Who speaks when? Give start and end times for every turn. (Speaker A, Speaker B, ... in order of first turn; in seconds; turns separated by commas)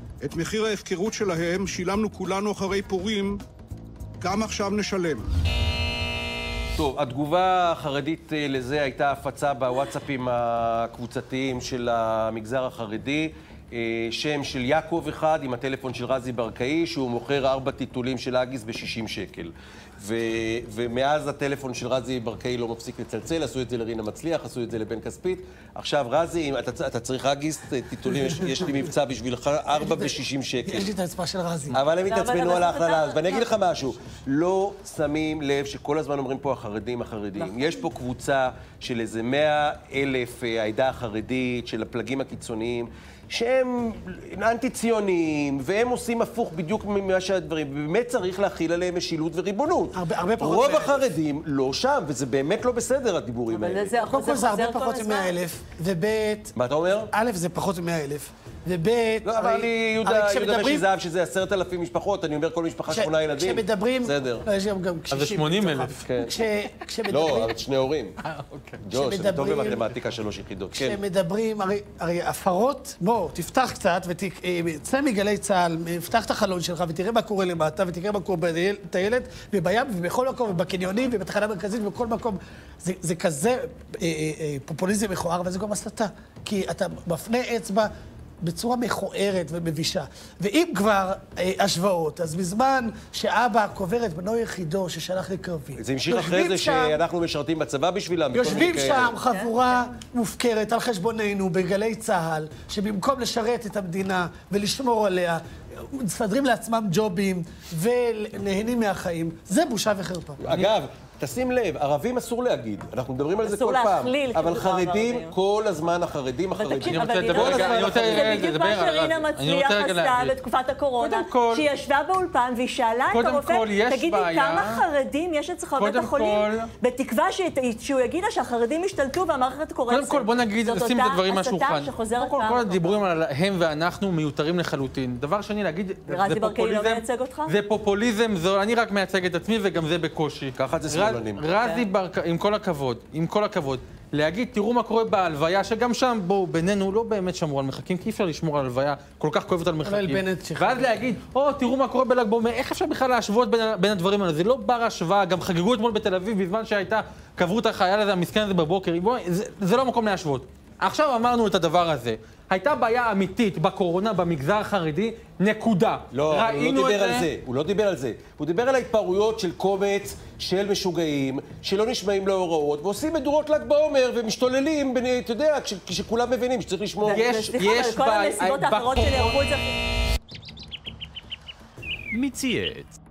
Speaker A: 0.2-3.4, Speaker A: 4.2-5.2, Speaker B: 6.8-30.9, Speaker C: 28.2-28.8, Speaker C: 29.7-31.8, Speaker B: 31.7-53.9, Speaker D: 32.0-33.5, Speaker C: 49.9-51.1, Speaker D: 53.5-55.3, Speaker C: 54.0-56.5, Speaker B: 56.5-57.1, Speaker C: 57.1-60.9, Speaker B: 59.2-64.5, Speaker C: 62.9-67.5, Speaker E: 65.1-66.0, Speaker B: 66.0-66.4, Speaker B: 67.1-68.2, Speaker E: 68.2-68.8, Speaker B: 68.8-71.0, Speaker C: 68.9-69.8, Speaker C: 70.7-97.0, Speaker B: 95.8-99.1, Speaker C: 98.3-110.4, Speaker D: 99.2-99.5, Speaker B: 110.4-118.5, Speaker E: 110.5-110.7, Speaker D: 113.4-115.3, Speaker D: 116.5-133.0, Speaker E: 116.8-120.3, Speaker E: 121.0-121.7, Speaker E: 123.1-124.8, Speaker E: 125.8-126.7, Speaker E: 129.9-167.2, Speaker D: 136.1-137.5, Speaker B: 140.6-141.4, Speaker D: 141.6-141.9, Speaker C: 149.8-150.9, Speaker B: 166.1-177.2, Speaker D: 177.0-179.7, Speaker E: 177.1-179.4